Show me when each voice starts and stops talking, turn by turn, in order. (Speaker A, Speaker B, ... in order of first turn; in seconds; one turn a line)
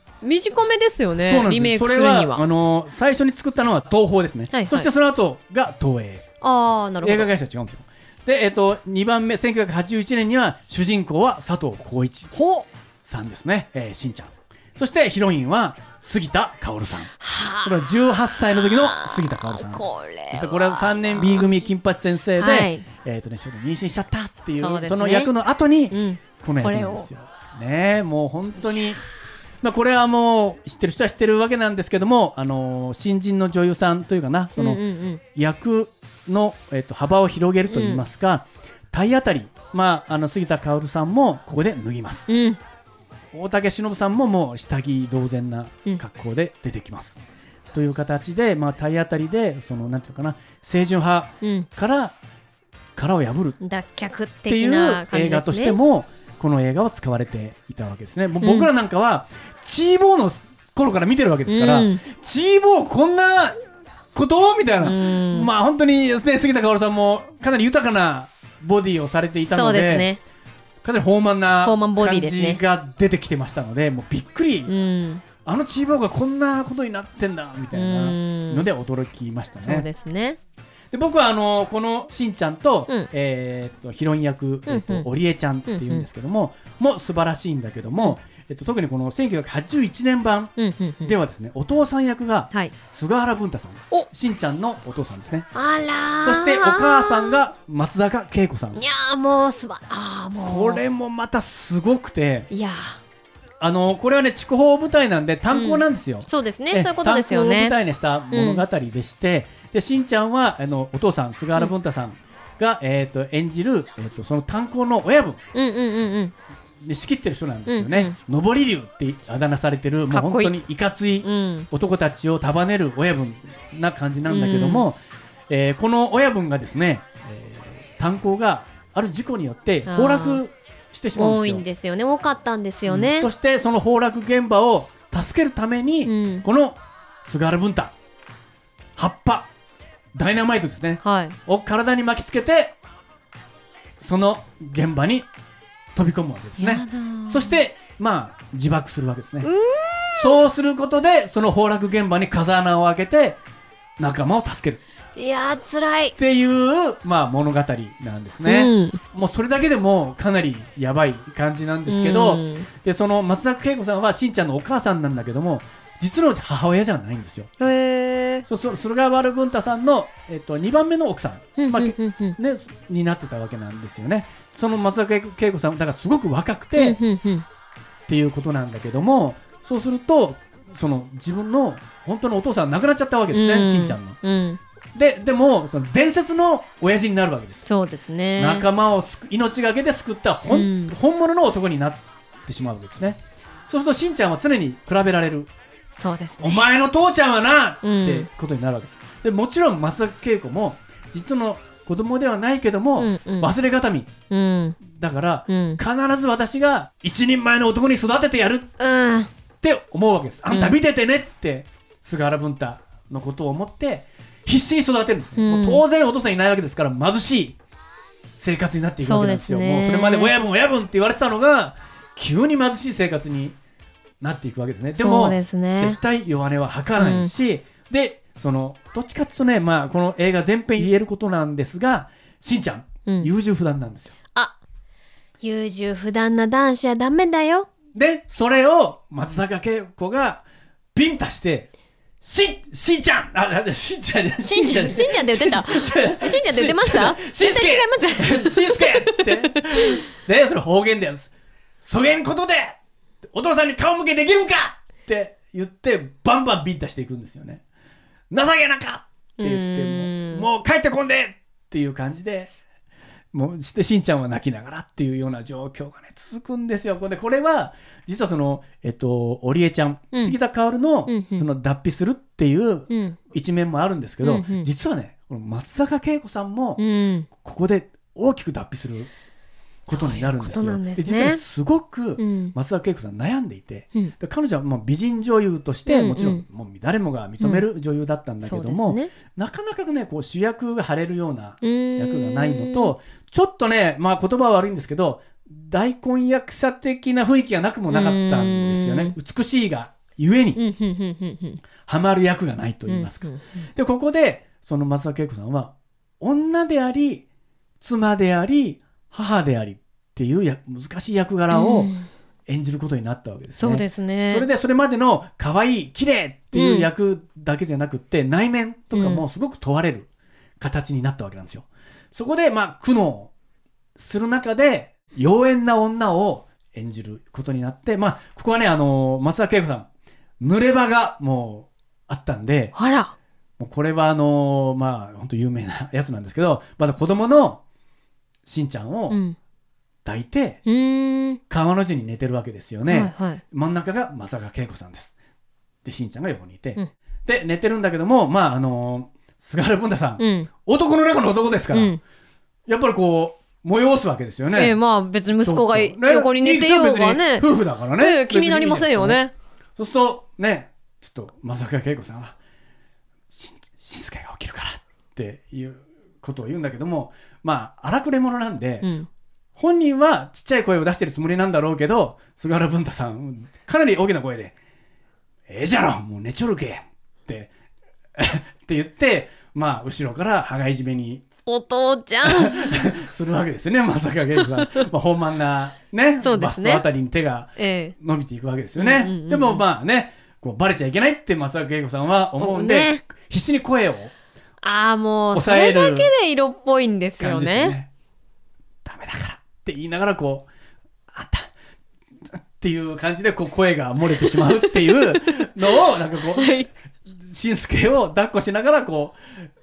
Speaker A: 0.2-2.4
Speaker B: 1.2-6.3
Speaker A: 4.5-4.9
Speaker A: 6.4-7.3
Speaker B: 7.0-12.3
Speaker A: 12.3-12.7
Speaker B: 13.0-17.1
Speaker A: 17.2-21.6
Speaker B: 17.6-29.0
Speaker A: 22.4-22.8
Speaker A: 24.6-25.3
Speaker A: 25.9-27.1
Speaker B: 29.6-34.8
Speaker A: 34.5-35.2
Speaker B: 35.3-42.3
Speaker A: 37.7-38.0
Speaker A: 42.3-42.6
Speaker B: 43.3-47.2
Speaker B: 47.7-52.2
Speaker A: 51.4-51.7
Speaker B: 53.0-53.6
Speaker A: 53.6-55.8
Speaker B: 54.5-63.6
Speaker A: 58.4-58.7
Speaker A: 61.5-62.0
Speaker B: 64.2-70.1
Speaker A: 64.8-65.5
Speaker A: 69.4-70.2
Speaker B: 70.8-74.7
Speaker A: 71.6-72.6
Speaker A: 74.7-75.2
Speaker B: 75.4-79.9
Speaker A: 77.7-78.7
Speaker A: 79.6-80.4
Speaker B: 80.9-95.5
Speaker A: 84.7-85.1
Speaker A: 85.7-86.1
Speaker A: 90.6-91.2
Speaker A: 95.5-97.4
Speaker B: 96.2-98.8
Speaker A: 98.8-100.8
Speaker B: 100.4-102.5
Speaker A: 102.5-103.0
Speaker B: 103.6-115.4
Speaker A: 105.5-107.8
Speaker A: 108.3-108.6
Speaker A: 115.5-116.3
Speaker B: 116.8-131.6
Speaker A: 117.7-118.2
Speaker A: 120.1-120.6
Speaker A: 121.2-121.7
Speaker A: 124.3-124.9
Speaker A: 129.9-130.4
Speaker A: 131.2-133.3
Speaker B: 132.9-137.9
Speaker A: 136.1-136.5
Speaker B: 139.0-139.5
Speaker B: 140.2-142.8
Speaker A: 141.0-141.4
Speaker B: 144.0-145.3
Speaker B: 145.9-149.5
Speaker A: 146.6-147.6
Speaker A: 149.4-150.4
Speaker B: 150.2-153.4
Speaker B: 154.0-154.8
Speaker A: 155.2-156.2
Speaker B: 156.2-167.5
Speaker A: 158.5-159.0
Speaker A: 161.9-162.7
Speaker A: 167.6-168.5
Speaker B: 168.5-177.0
Speaker A: 171.6-172.4
Speaker A: 176.8-177.5
Speaker B: 178.1-184.2
Speaker A: 183.3-184.6
Speaker B: 184.9-187.7
Speaker A: 187.7-188.7
Speaker B: 188.4-195.5
Speaker A: 190.5-190.9
Speaker A: 195.9-196.7
Speaker B: 196.4-204.1
Speaker A: 197.8-198.3
Speaker A: 203.0-203.5
Speaker A: 204.3-204.8
Speaker B: 204.8-208.7
Speaker A: 205.5-205.8
Speaker A: 208.8-209.3
Speaker B: 209.6-217.6
Speaker A: 210.5-210.8
Speaker A: 215.4-215.8
Speaker B: 218.4-223.6
Speaker A: 219.0-220.3
Speaker B: 224.2-234.2
Speaker A: 225.0-226.0
Speaker A: 227.0-227.3
Speaker A: 235.4-237.7
Speaker B: 237.9-240.4
Speaker B: 240.9-241.7
Speaker B: 242.2-252.8
Speaker A: 244.4-250.0
Speaker B: 253.3-257.6
Speaker B: 258.3-262.5
Speaker A: 259.4-260.4
Speaker B: 263.3-279.1
Speaker A: 271.1-271.4
Speaker A: 272.9-273.2
Speaker A: 274.2-274.7
Speaker A: 276.8-277.3
Speaker A: 279.9-281.4
Speaker B: 279.9-300.6
Speaker A: 282.2-282.5
Speaker A: 285.9-286.4
Speaker A: 287.4-287.7
Speaker A: 288.4-289.1
Speaker A: 291.6-292.9
Speaker A: 297.9-299.1
Speaker A: 300.6-301.6
Speaker B: 301.9-307.2
Speaker A: 302.9-303.7
Speaker B: 307.8-311.9
Speaker A: 311.5-312.1
Speaker B: 312.5-320.1
Speaker A: 313.6-314.5
Speaker A: 316.5-316.9
Speaker A: 318.9-319.2
Speaker B: 320.6-323.3
Speaker B: 324.0-329.9
Speaker B: 330.4-332.8
Speaker A: 332.8-333.1
Speaker B: 333.6-337.6
Speaker B: 338.5-339.2
Speaker A: 339.1-339.4
Speaker B: 340.1-340.6
Speaker A: 340.7-341.4
Speaker B: 341.5-345.1
Speaker A: 342.9-343.4
Speaker B: 345.9-352.0
Speaker A: 350.2-350.5
Speaker A: 351.7-352.0
Speaker B: 352.7-354.8
Speaker A: 354.5-359.3
Speaker B: 355.4-359.2
Speaker B: 359.8-362.4
Speaker B: 363.3-368.9
Speaker A: 368.8-369.1
Speaker B: 369.6-374.6
Speaker B: 375.5-377.5
Speaker B: 378.2-381.2
Speaker A: 381.5-382.9
Speaker B: 382.2-394.1
Speaker A: 384.4-384.9
Speaker A: 386.2-386.9
Speaker A: 387.6-387.9
Speaker A: 388.8-389.6
Speaker A: 392.4-393.0
Speaker A: 394.6-397.8
Speaker B: 395.3-396.1
Speaker B: 397.2-397.9
Speaker B: 398.9-400.5
Speaker B: 401.1-401.5
Speaker B: 402.4-406.6
Speaker A: 404.3-405.7
Speaker A: 406.4-406.7
Speaker B: 407.2-409.2